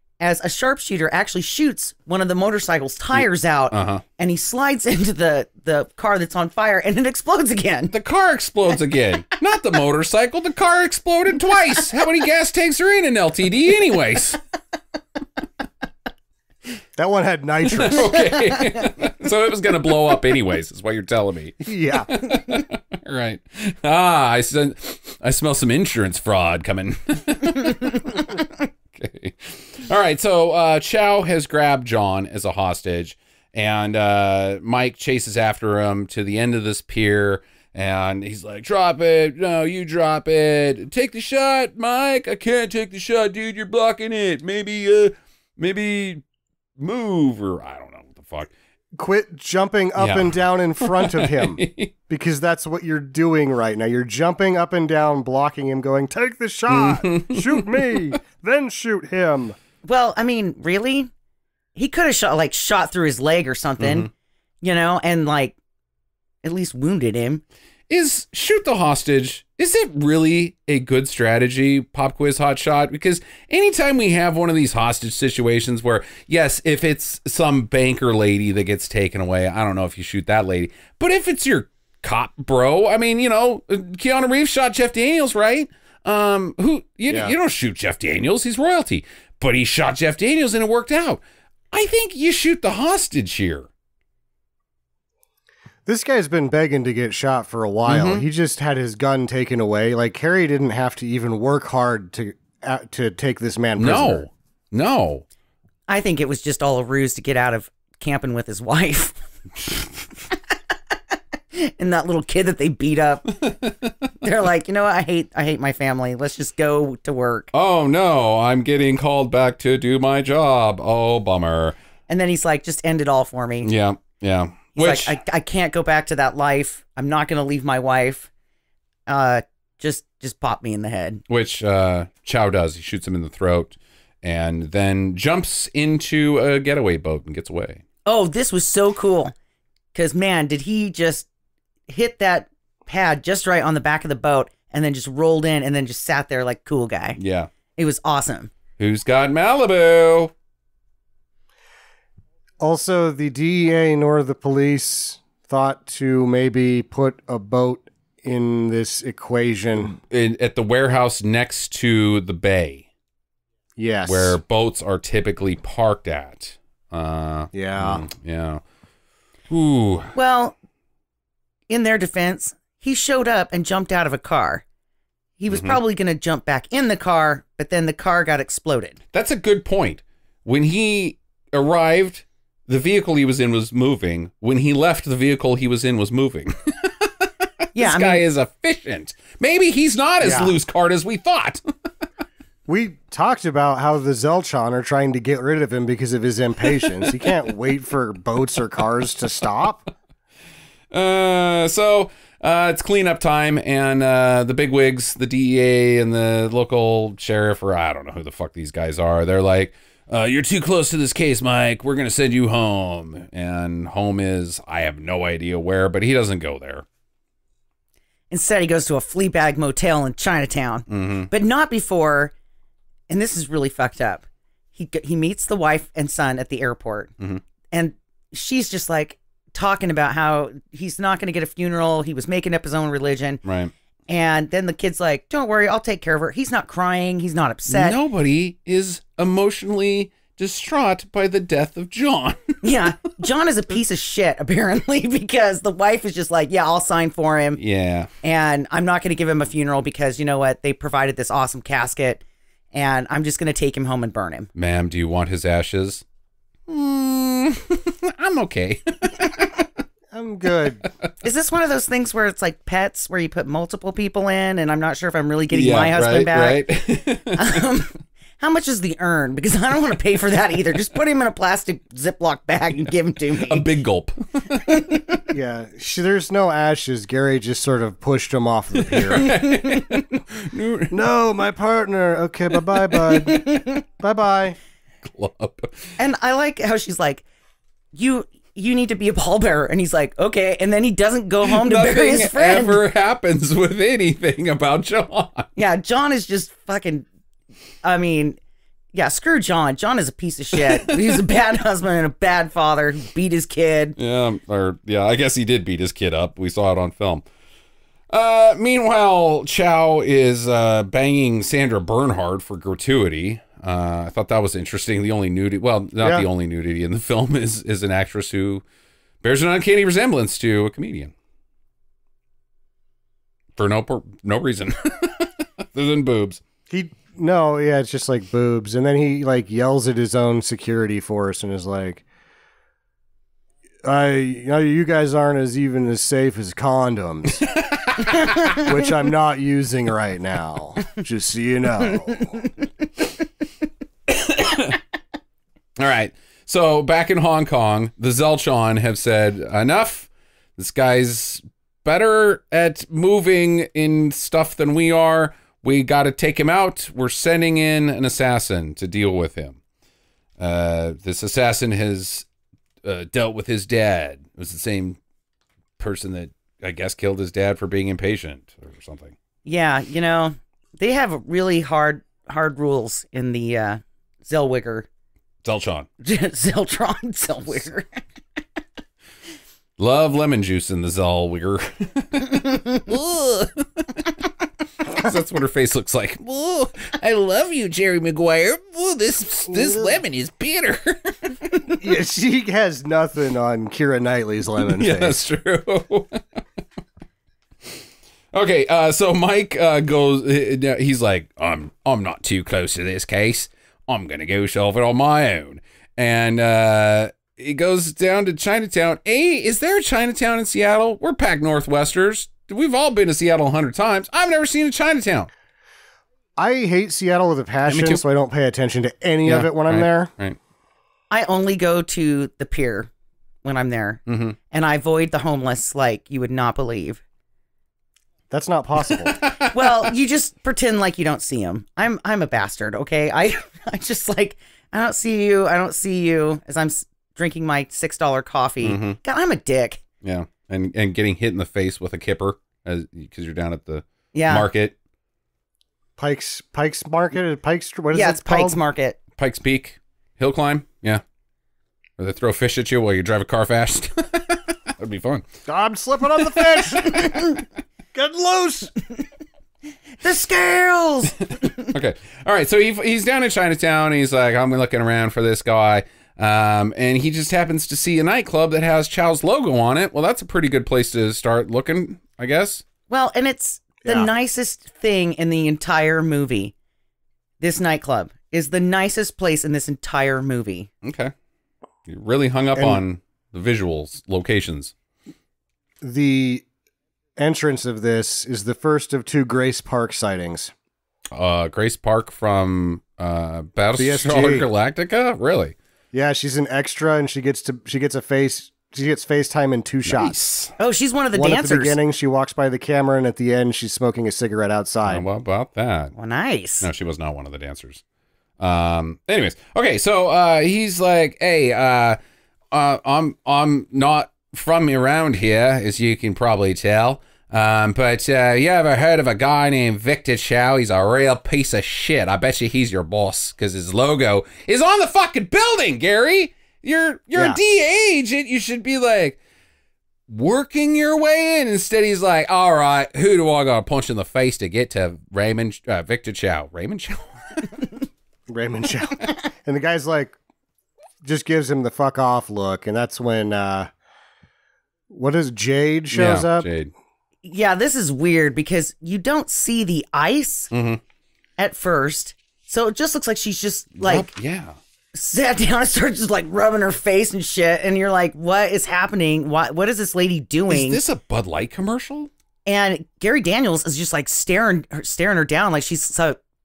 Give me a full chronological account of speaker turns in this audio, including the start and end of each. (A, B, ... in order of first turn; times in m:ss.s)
0:00.2-0:07.9 A
0:03.1-0:04.0 B
0:07.9-0:14.4 B
0:17.0-0:18.1 C
0:17.6-0:46.2 B
0:18.3-0:18.8 A
0:21.6-0:22.1 C
0:46.8-0:48.5 B
0:48.9-0:59.6 C
0:50.0-0:51.9 B
0:56.7-0:58.1 B
0:59.8-1:01.1 A
1:01.7-1:04.1 A
1:03.8-1:04.1 B
1:04.6-1:05.6 A
1:06.4-1:07.4 A
1:07.9-1:31.2 B
1:27.1-1:27.3 C
1:31.7-1:33.7 B
1:35.8-1:44.2 C
1:37.8-1:38.2 B
1:43.8-1:45.2 B
1:45.9-1:49.2 A
1:51.5-1:53.4 A
1:53.4-1:53.9 B
1:54.2-1:57.5 A
1:57.5-2:01.7 B
2:02.1-2:03.7 A
2:03.6-2:05.2 B
2:04.7-2:08.3 A
2:09.1-2:11.2 A
2:11.3-2:17.8 B
2:18.0-2:19.3 A
2:19.9-2:21.3 A
2:21.9-2:27.2 A
2:27.2-2:27.5 B
2:27.8-2:28.5 A
2:28.8-2:30.3 B
2:32.6-2:40.0 C
2:40.1-2:42.9 B
2:43.8-2:44.4 C
2:44.0-2:48.6 B
2:47.5-2:48.0 C
2:49.5-2:50.1 B
2:50.1-2:50.6 A
2:51.7-2:54.6 A
2:55.4-2:59.0 A
2:55.5-2:55.8 B
2:59.1-3:11.6 B
3:07.7-3:08.2 A
3:10.2-3:10.5 C
3:12.6-3:19.8 C
3:20.9-3:36.8 B
3:38.3-3:42.3 A
3:40.9-3:41.3 B
3:43.1-3:47.1 A
3:47.7-3:53.4 A
3:53.4-3:53.7 B
3:54.1-3:58.0 A
3:57.7-4:02.6 B
4:02.6-4:07.6 A
4:07.6-4:08.1 B
4:08.2-4:12.2 A
4:12.7-4:14.5 A
4:14.5-4:16.0 B
4:16.7-4:19.7 B
4:20.1-4:20.8 C
4:21.2-4:26.6 A
4:25.5-4:27.6 B
4:27.3-4:33.6 A
4:33.4-4:35.0 B
4:34.6-4:35.0 A
4:35.3-4:39.4 C
4:38.8-4:40.9 B
4:39.1-4:40.2 A
4:40.9-4:44.6 C
4:43.3-4:43.8 A
4:45.0-4:45.9 B
4:46.0-4:47.2 A
4:47.9-4:52.8 A
4:51.4-4:55.5 B
4:55.6-4:57.0 A
4:57.8-4:58.4 A
4:58.9-5:04.0 A
5:00.8-5:01.2 B
5:04.0-5:07.2 B
5:08.1-5:18.6 B
5:16.0-5:16.3 C
5:19.2-5:21.1 B
5:23.6-5:26.4 B
5:26.7-5:32.0 C
5:33.8-5:37.4 C
5:37.4-5:38.7 B
5:38.5-5:42.4 C
5:44.1-5:44.8 B
5:45.8-5:59.6 B
6:00.4-6:02.3 B
6:02.8-6:05.0 B
6:05.8-6:09.2 B
6:09.4-6:14.9 A
6:15.4-6:15.9 B
6:16.0-6:18.0 A
6:19.8-6:24.3 B
6:22.5-6:22.8 A
6:24.8-6:31.8 B
6:29.5-6:30.0 C
6:31.7-6:35.2 C
6:34.6-6:36.4 B
6:38.3-6:55.3 B
6:56.4-7:00.1 C
6:57.7-6:58.0 B
6:59.2-7:00.4 B
7:01.1-7:02.9 A
7:03.4-7:07.0 A
7:04.1-7:04.4 B
7:08.3-7:09.2 C
7:08.9-7:09.9 B
7:09.5-7:19.8 A
7:18.6-7:19.0 B
7:20.0-7:24.7 B
7:24.1-7:24.5 A
7:26.0-7:28.6 C
7:27.9-7:29.0 A
7:29.2-7:31.0 B
7:32.0-7:35.3 B
7:35.5-7:37.4 C
7:36.2-7:37.2 B
7:37.9-7:38.7 C
7:40.0-7:41.7 A
7:41.5-7:52.6 B
7:52.9-7:56.5 A
7:53.8-7:54.1 C
7:57.4-8:00.7 A
8:00.8-8:01.1 B
8:01.9-8:04.7 B
8:02.5-8:02.8 C
8:05.8-8:06.4 C
8:07.2-8:10.5 C
8:11.1-8:15.5 B
8:13.8-8:14.4 C
8:15.9-8:20.2 C
8:19.8-8:20.5 B
8:20.6-8:21.8 A
8:21.1-8:25.0 C
8:24.9-8:25.9 B
8:25.9-8:26.7 A
8:26.6-8:27.8 B
8:28.4-8:32.0 B
8:32.5-8:49.2 B
8:47.1-8:47.4 C
8:50.1-8:57.6 B
8:58.3-9:00.2 C
9:01.0-9:03.7 C
9:04.9-9:06.5 C
9:05.9-9:06.7 B
9:07.2-9:10.5 A
9:10.5-9:10.8 B
9:11.4-9:14.1 A
9:13.8-9:14.6 B
9:14.9-9:20.8 A
9:20.5-9:22.1 B
9:22.4-9:26.2 A